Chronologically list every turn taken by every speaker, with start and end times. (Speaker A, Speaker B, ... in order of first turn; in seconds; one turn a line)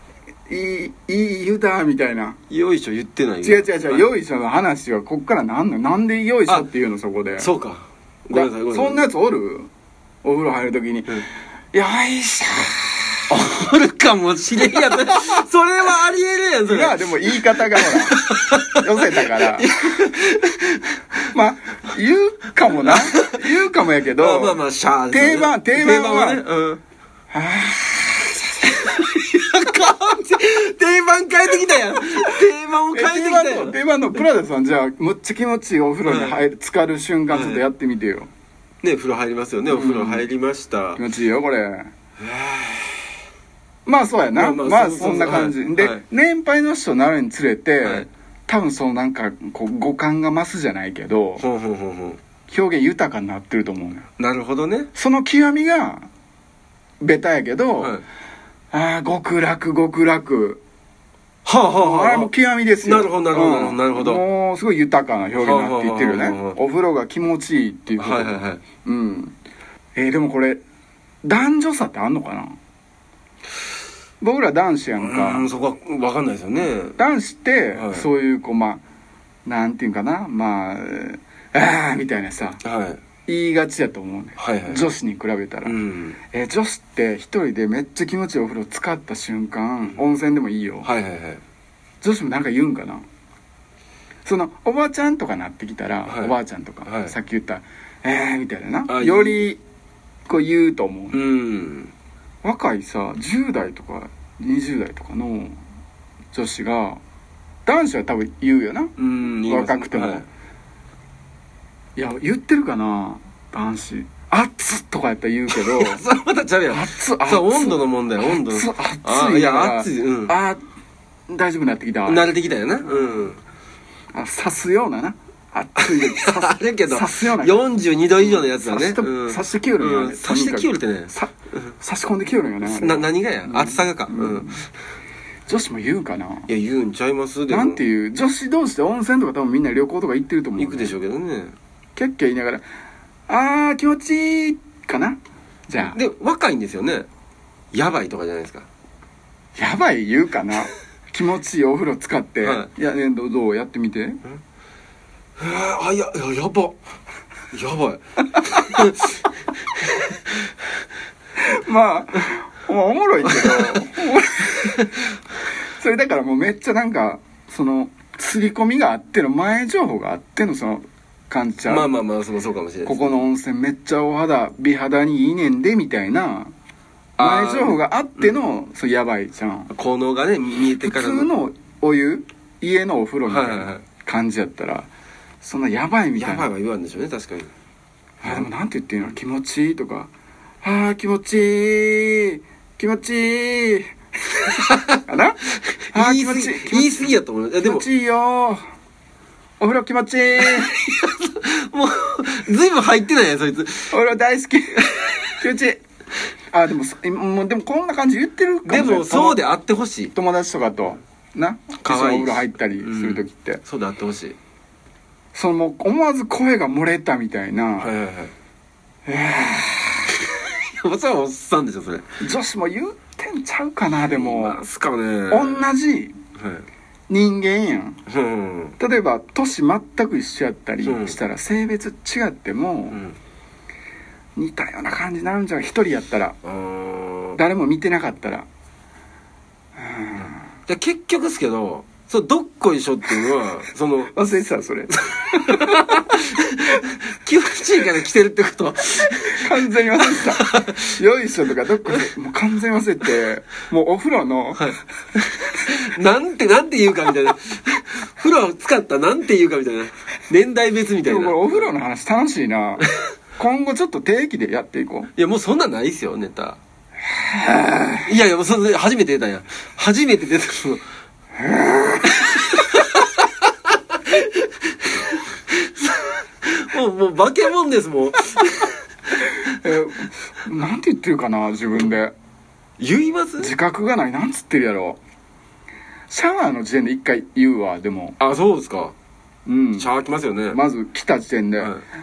Speaker A: 0.5-2.4
Speaker B: 2.5-4.0
Speaker A: 3.4-7.5
Speaker B: 7.4-9.1
Speaker A: 8.3-9.7
Speaker A: 10.2-13.2
Speaker B: 13.3-21.0
Speaker A: 14.7-15.4
Speaker A: 16.7-18.2
Speaker A: 18.7-19.7
Speaker A: 21.3-24.6
Speaker B: 22.8-23.4
Speaker B: 24.2-26.8
Speaker A: 25.1-26.4
Speaker A: 27.3-29.1
Speaker B: 28.6-33.8
Speaker A: 32.0-38.3
Speaker B: 36.1-36.4
Speaker B: 37.3-37.6
Speaker B: 38.8-41.0
Speaker A: 39.7-40.3
Speaker A: 41.0-41.9
Speaker B: 42.2-43.0
Speaker A: 43.9-51.4
Speaker B: 44.4-46.0
Speaker B: 51.4-52.2
Speaker A: 52.5-54.1
Speaker B: 54.2-54.9
Speaker A: 55.0-56.1
Speaker A: 57.0-58.0
Speaker B: 57.8-58.0
Speaker A: 58.7-60.6
Speaker B: 61.5-64.2
Speaker A: 61.8-69.3
Speaker B: 65.4-66.6
Speaker B: 68.0-68.6
Speaker A: 70.0-70.6
Speaker A: 71.2-72.6
Speaker A: 74.2-75.5
Speaker B: 75.0-77.0
Speaker A: 77.0-78.8
Speaker B: 77.8-78.1
Speaker A: 79.5-82.6
Speaker B: 82.6-83.0
Speaker A: 83.3-85.8
Speaker B: 84.4-84.8
Speaker B: 85.7-86.2
Speaker A: 86.3-90.9
Speaker B: 90.8-91.4
Speaker A: 92.0-93.0
Speaker A: 94.2-99.6
Speaker B: 96.1-96.3
Speaker B: 96.9-97.1
Speaker B: 98.9-99.5
Speaker A: 100.3-101.2
Speaker B: 101.1-101.9
Speaker A: 102.4-105.6
Speaker A: 106.3-107.0
Speaker A: 107.7-110.3
Speaker B: 109.0-110.3
Speaker A: 112.0-116.0
Speaker B: 115.5-120.4
Speaker A: 116.7-120.6
Speaker A: 121.3-122.3
Speaker B: 122.1-123.4
Speaker A: 122.9-123.3
Speaker A: 124.1-127.6
Speaker B: 125.8-131.7
Speaker A: 128.2-134.6
Speaker B: 132.6-134.6
Speaker A: 135.5-136.5
Speaker B: 136.5-137.8
Speaker A: 137.5-141.0
Speaker B: 140.6-141.5
Speaker A: 142.0-142.6
Speaker A: 143.3-146.0
Speaker B: 145.8-147.1
Speaker B: 147.7-148.7
Speaker A: 149.6-154.2
Speaker B: 152.4-152.7
Speaker B: 155.4-156.8
Speaker B: 157.5-159.2
Speaker A: 161.4-165.0
Speaker B: 163.3-163.8
Speaker A: 165.8-171.9
Speaker B: 171.7-173.1
Speaker A: 172.8-176.5
Speaker A: 177.2-179.7
Speaker B: 177.2-177.8
Speaker B: 179.7-181.3
Speaker A: 180.8-184.9
Speaker B: 183.3-183.8
Speaker A: 185.4-186.5
Speaker B: 186.2-187.5
Speaker A: 188.2-190.1
Speaker A: 190.6-193.9
Speaker A: 194.5-195.4
Speaker B: 194.7-195.0
Speaker B: 195.9-197.8
Speaker A: 195.9-197.1
Speaker A: 197.6-198.6
Speaker A: 199.6-200.7
Speaker B: 200.4-204.0
Speaker A: 203.9-205.8
Speaker B: 204.8-205.2
Speaker A: 206.5-209.4
Speaker B: 208.7-210.1
Speaker A: 210.1-213.6
Speaker B: 211.8-214.4
Speaker A: 215.3-217.9
Speaker B: 217.8-218.3
Speaker A: 219.1-220.2
Speaker B: 220.3-222.1
Speaker A: 222.2-224.6
Speaker B: 224.0-225.6
Speaker A: 225.3-226.2
Speaker B: 226.4-226.7
Speaker A: 227.1-228.0
Speaker B: 228.1-228.8
Speaker A: 228.8-233.0
Speaker B: 230.8-231.2
Speaker A: 234.4-236.4
Speaker B: 236.4-237.4
Speaker A: 237.4-238.5
Speaker A: 239.8-240.4
Speaker B: 240.7-244.1
Speaker A: 244.1-246.1
Speaker B: 245.1-249.4
Speaker A: 249.3-254.8
Speaker B: 250.1-250.9
Speaker B: 254.6-261.7
Speaker A: 261.0-262.9
Speaker A: 263.4-265.1
Speaker B: 265.2-266.6
Speaker A: 267.2-268.1
Speaker B: 268.0-270.8
Speaker A: 271.4-272.5
Speaker B: 272.1-278.7
Speaker A: 279.4-282.1
Speaker B: 282.8-283.5
Speaker A: 283.4-285.0
Speaker A: 286.1-288.2
Speaker B: 288.2-288.9
Speaker A: 289.5-289.9
Speaker B: 289.8-290.6
Speaker A: 290.5-291.8